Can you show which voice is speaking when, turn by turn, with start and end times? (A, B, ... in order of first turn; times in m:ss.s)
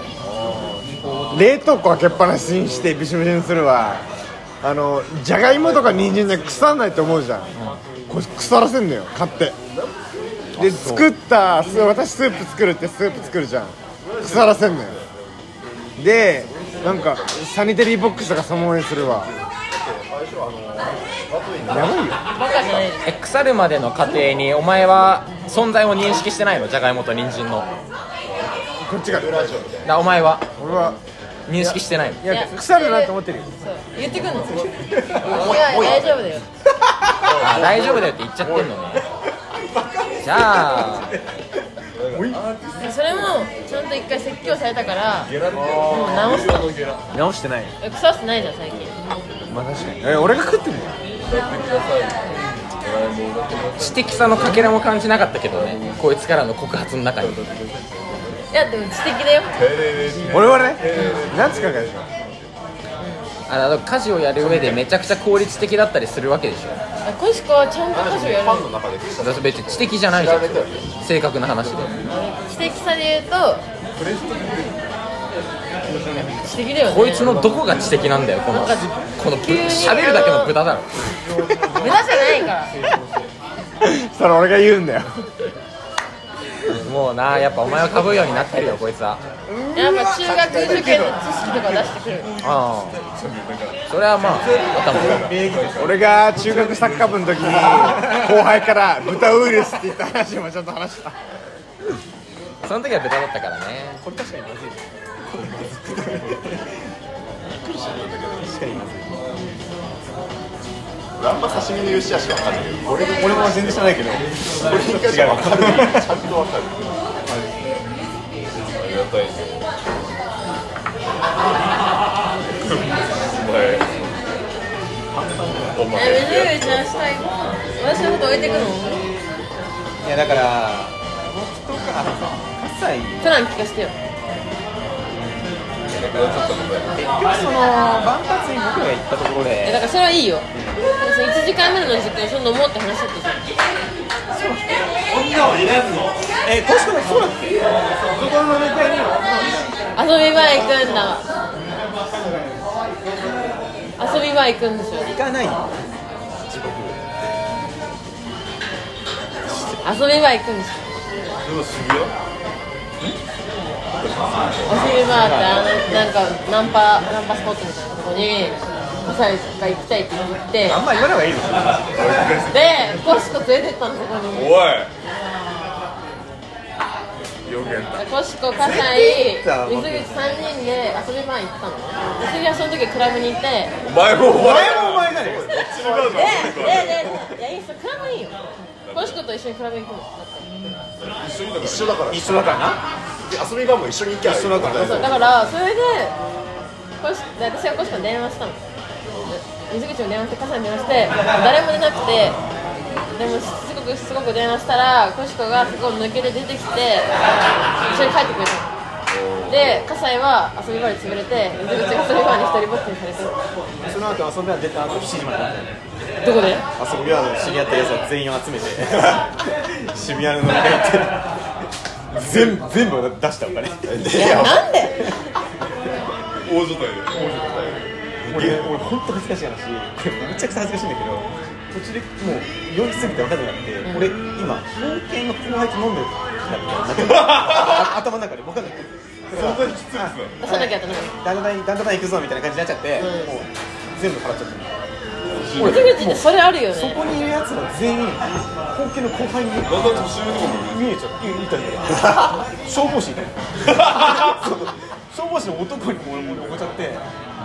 0:00.3-0:01.2 A
0:01.0-0:01.3 B
0:01.3-0:04.0 C
0:04.6-0:07.5 C
0:05.8-0:06.2 A
0:07.5-0:07.8 D
0:08.1-0:09.6 C
0:09.7-0:10.8 A
0:10.6-0:15.0 C
0:10.6-0:11.1 D
0:14.0-0:19.6 A
0:16.0-0:19.3 C
0:19.7-0:22.9 E
0:21.7-0:22.2 C
0:22.3-0:23.1 F
0:23.0-0:27.7 D
0:28.3-0:28.6 A
0:28.8-0:29.6 C
0:29.0-0:30.1 E
0:29.8-0:30.5 D
0:30.6-0:31.0 C
0:30.7-0:31.0 A
0:31.5-0:32.2 D
0:31.6-0:33.5 C
0:32.2-0:34.6 F
0:34.0-0:35.6 B
0:34.4-0:36.2 A
0:35.2-0:36.3 E
0:35.2-0:36.5 F
0:36.8-0:37.3 B
0:37.2-0:38.2 A
0:37.4-0:39.0 D
0:38.4-0:41.3 B
0:40.2-0:41.1 D
0:41.9-0:44.0 A
0:42.0-0:42.4 B
0:42.8-0:46.7 F
0:45.2-0:47.1 A
0:47.1-0:47.7 C
0:47.8-0:48.9 F
0:49.5-0:50.9 C
0:51.2-0:56.1 A
0:53.8-0:57.4 D
0:57.2-0:58.5 A
0:58.5-0:59.7 F
0:59.5-1:02.5 A
1:00.3-1:02.0 C
1:00.9-1:01.2 F
1:03.0-1:03.3 F
1:03.5-1:06.8 D
1:04.4-1:04.8 A
1:07.0-1:08.7 F
1:07.9-1:10.8 E
1:09.2-1:12.1 D
1:10.1-1:11.0 A
1:11.6-1:12.0 A
1:12.0-1:13.6 F
1:13.9-1:14.8 A
1:15.9-1:16.5 A
1:16.4-1:17.4 F
1:16.9-1:20.9 D
1:17.2-1:18.1 A
1:18.5-1:20.5 F
1:21.2-1:22.0 B
1:21.7-1:22.7 F
1:22.7-1:23.3 B
1:23.8-1:25.1 C
1:26.7-1:28.5 A
1:26.7-1:29.2 D
1:29.4-1:31.2 B
1:29.7-1:32.3 F
1:32.4-1:33.0 D
1:32.9-1:38.2 A
1:33.9-1:35.4 D
1:34.9-1:36.0 B
1:35.8-1:41.2 C
1:37.4-1:38.4 B
1:42.6-1:44.0 D
1:44.0-1:46.7 B
1:47.5-1:48.6 E
1:48.4-1:49.2 B
1:51.2-1:54.0 E
1:53.1-1:56.2 B
1:54.6-1:57.0 E
1:58.7-1:59.7 A
2:02.6-2:04.0 A
2:05.1-2:05.8 B
2:05.7-2:06.9 A
2:05.9-2:09.0 F
2:10.0-2:13.3 B
2:13.2-2:13.9 F
2:15.9-2:17.0 A
2:16.9-2:19.8 B
2:19.6-2:20.5 F
2:20.5-2:20.8 B
2:21.0-2:23.4 F
2:24.3-2:24.9 B
2:26.4-2:27.8 B
2:28.2-2:29.2 C
2:30.0-2:31.4 F
2:34.0-2:35.1 F
2:35.0-2:37.0 B
2:39.5-2:39.8 B
2:39.8-2:40.9 F
2:41.4-2:42.1 A
2:44.0-2:45.1 A
2:44.6-2:50.8 F
2:45.0-2:45.6 B
2:50.6-2:52.3 B
2:51.9-2:53.0 A
2:52.5-2:54.6 F
2:54.3-2:54.9 A
2:57.4-2:58.1 A
2:58.0-3:03.7 F
2:58.6-3:00.2 B
3:03.8-3:07.3 A
3:04.2-3:06.1 B
3:05.5-3:10.5 F
3:05.8-3:06.8 E
3:08.8-3:09.2 A
3:11.2-3:12.1 A
3:11.6-3:12.6 E
3:12.1-3:12.8 B
3:13.2-3:15.2 E
3:14.2-3:15.2 B
3:14.8-3:16.2 F
3:17.0-3:18.6 F
3:19.3-3:22.4 F
3:23.1-3:27.2 F
3:27.8-3:28.7 F
3:29.1-3:29.9 A
3:29.5-3:33.4 F
3:33.8-3:35.8 B
3:36.2-3:36.6 F
3:36.8-3:39.3 B
3:39.9-3:41.2 B
3:42.1-3:42.6 A
3:42.1-3:45.2 B
3:43.9-3:44.6 E
3:44.1-3:45.0 F
3:46.4-3:48.9 A
3:48.3-4:04.8 B
3:53.8-3:54.1 F
3:57.0-3:57.9 A
3:59.3-4:00.4 A
4:00.4-4:01.1 F
4:03.0-4:03.4 F
4:05.2-4:06.0 A
4:05.6-4:17.1 B
4:05.6-4:07.0 F
4:09.6-4:11.0 A
4:13.6-4:14.5 A